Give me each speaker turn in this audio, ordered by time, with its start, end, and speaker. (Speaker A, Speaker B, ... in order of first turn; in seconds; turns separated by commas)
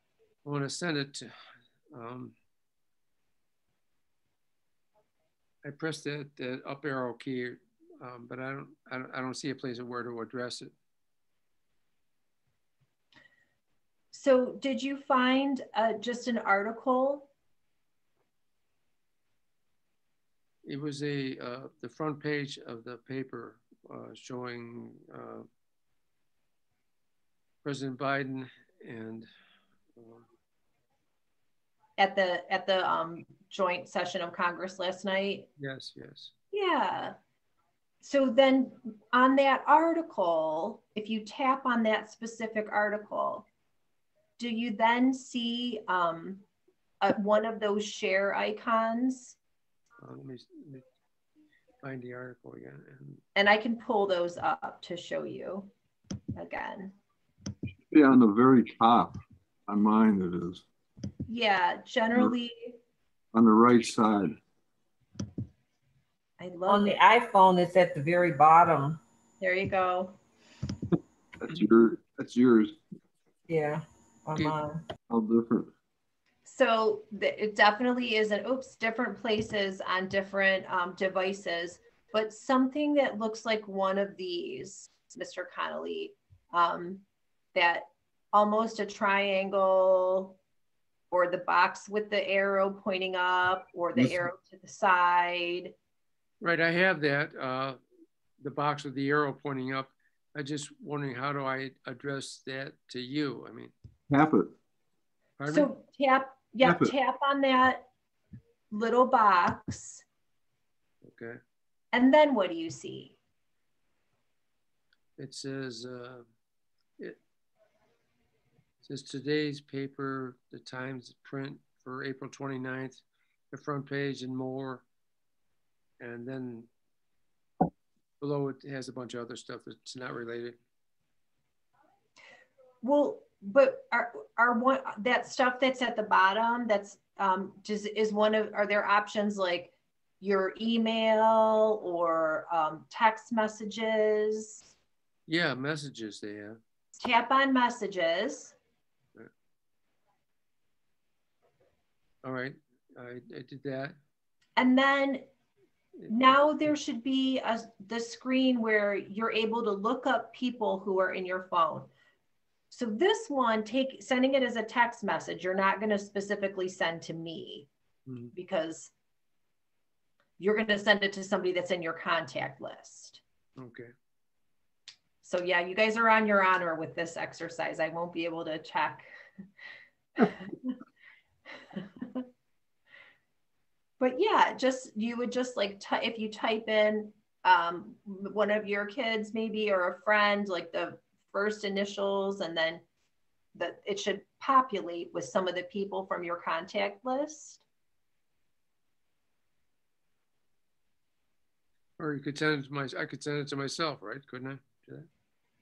Speaker A: 0.4-1.3, Speaker A: 1.9-2.3, Speaker A: 5.6-10.7, Speaker B: 14.1-17.3, Speaker A: 20.6-25.5, Speaker A: 27.6-29.3, Speaker A: 29.9-30.2, Speaker B: 32.0-35.5, Speaker A: 35.6-36.3, Speaker B: 36.5-37.1, Speaker B: 38.0-43.5, Speaker B: 44.4-46.4, Speaker B: 47.0-49.4, Speaker A: 50.0-50.8, Speaker A: 51.8-53.2, Speaker B: 53.3-55.7, Speaker B: 56.3-56.9, Speaker C: 57.9-59.2, Speaker C: 59.7-60.6, Speaker B: 61.3-62.8, Speaker C: 63.3-64.4, Speaker B: 66.4-67.0, Speaker D: 66.7-69.0, Speaker B: 69.4-70.2, Speaker C: 71.4-72.8, Speaker D: 73.5-74.8, Speaker C: 75.1-75.7, Speaker B: 76.4-90.4, Speaker B: 91.1-95.7, Speaker C: 94.0-94.2, Speaker A: 96.4-97.8, Speaker A: 98.4-103.7, Speaker C: 104.1-104.5, Speaker A: 105.4-105.7, Speaker B: 105.5-107.9, Speaker C: 106.6-106.9, Speaker B: 108.7-110.0, Speaker A: 111.0-111.4, Speaker B: 111.9-113.2, Speaker A: 115.2-116.2, Speaker A: 118.8-124.8, Speaker A: 126.0-126.7, Speaker A: 128.2-130.6, Speaker B: 132.8-144.7, Speaker A: 145.3-146.6, Speaker B: 147.0-148.6, Speaker A: 152.2-154.0, Speaker B: 154.6-155.3, Speaker A: 156.0-156.3, Speaker B: 156.1-161.9, Speaker B: 162.7-167.7, Speaker A: 168.1-168.3, Speaker B: 168.3-168.9, Speaker B: 170.4-173.2, Speaker A: 173.6-173.9, Speaker B: 175.2-179.1, Speaker B: 180.2-180.7, Speaker B: 184.0-192.8, Speaker B: 193.5-197.6, Speaker A: 202.0-205.1